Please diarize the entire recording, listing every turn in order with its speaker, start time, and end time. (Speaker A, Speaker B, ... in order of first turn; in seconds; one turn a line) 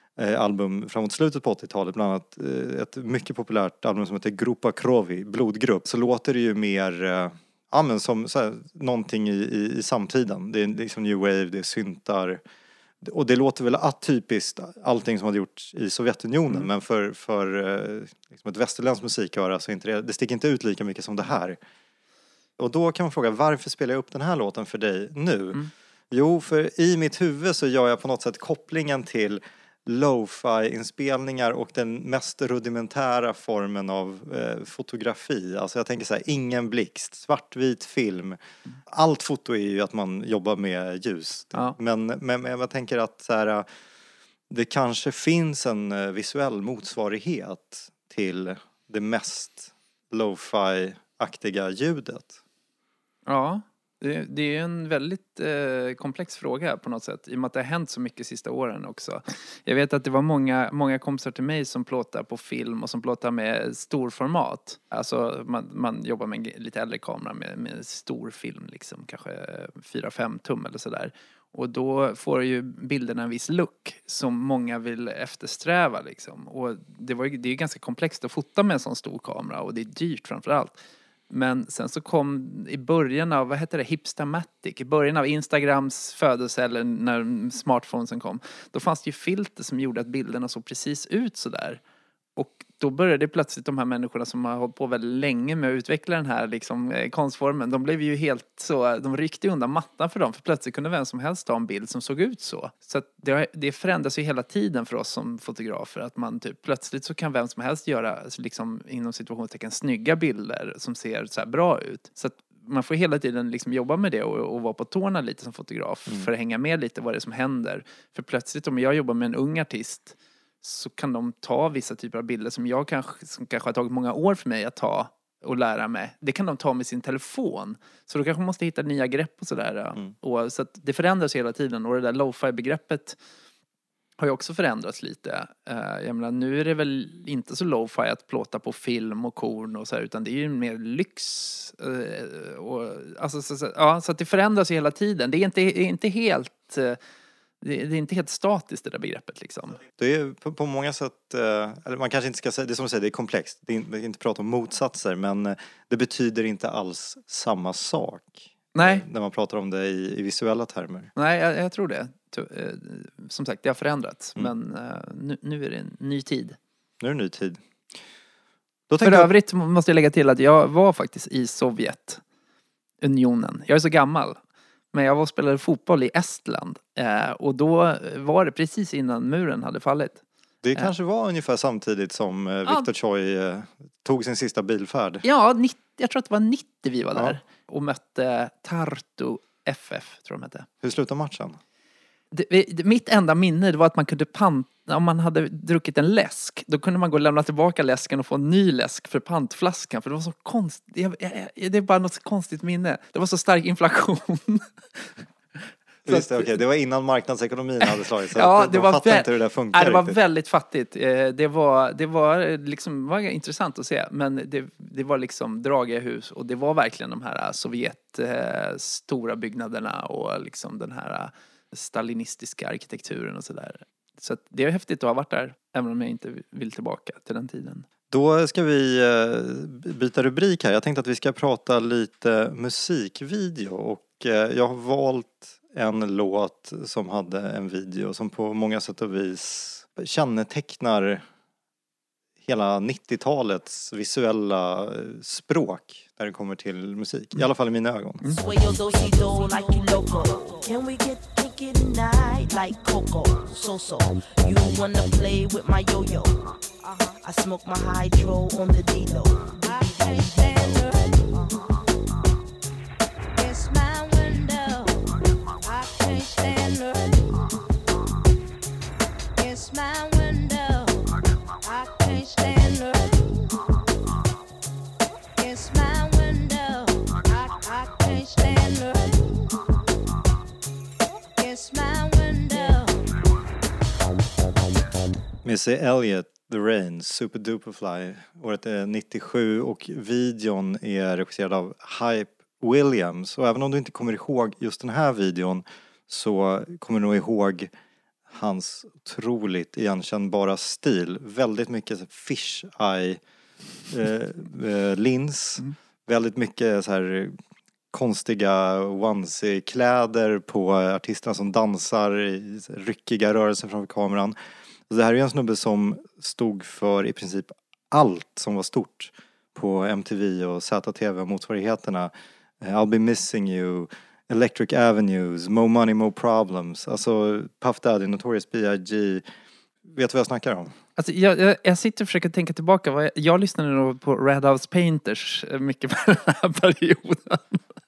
Speaker A: 0.2-12.4
Speaker A: 13.0-21.6
Speaker A: 22.6-43.7
Speaker A: 44.5-52.4
Speaker B: 53.3-80.8
Speaker B: 81.3-91.8
Speaker B: 92.4-133.2
Speaker B: 134.2-147.0
Speaker B: 147.6-149.8
Speaker A: 150.0-161.1
Speaker B: 158.8-159.0
Speaker B: 161.2-166.6
Speaker A: 167.0-167.6
Speaker A: 168.9-169.3
Speaker B: 169.0-172.2
Speaker B: 173.0-174.4
Speaker B: 174.9-180.2
Speaker A: 180.6-185.2
Speaker B: 185.2-190.7
Speaker A: 190.8-191.6
Speaker B: 192.3-205.1
Speaker A: 206.1-210.2
Speaker B: 206.1-206.5
Speaker B: 207.9-227.8
Speaker A: 228.1-241.2
Speaker A: 242.4-248.3
Speaker C: 248.3-260.8
Speaker D: 259.6-261.3
Speaker D: 263.4-265.0
Speaker D: 265.6-267.3
Speaker D: 269.4-271.1
Speaker D: 271.6-273.4
Speaker D: 275.4-279.4
Speaker D: 281.4-283.0
Speaker A: 285.4-297.7
Speaker A: 298.3-303.2
Speaker A: 303.9-307.4
Speaker A: 307.9-314.4
Speaker A: 314.9-329.2
Speaker A: 329.9-330.8
Speaker B: 331.0-337.6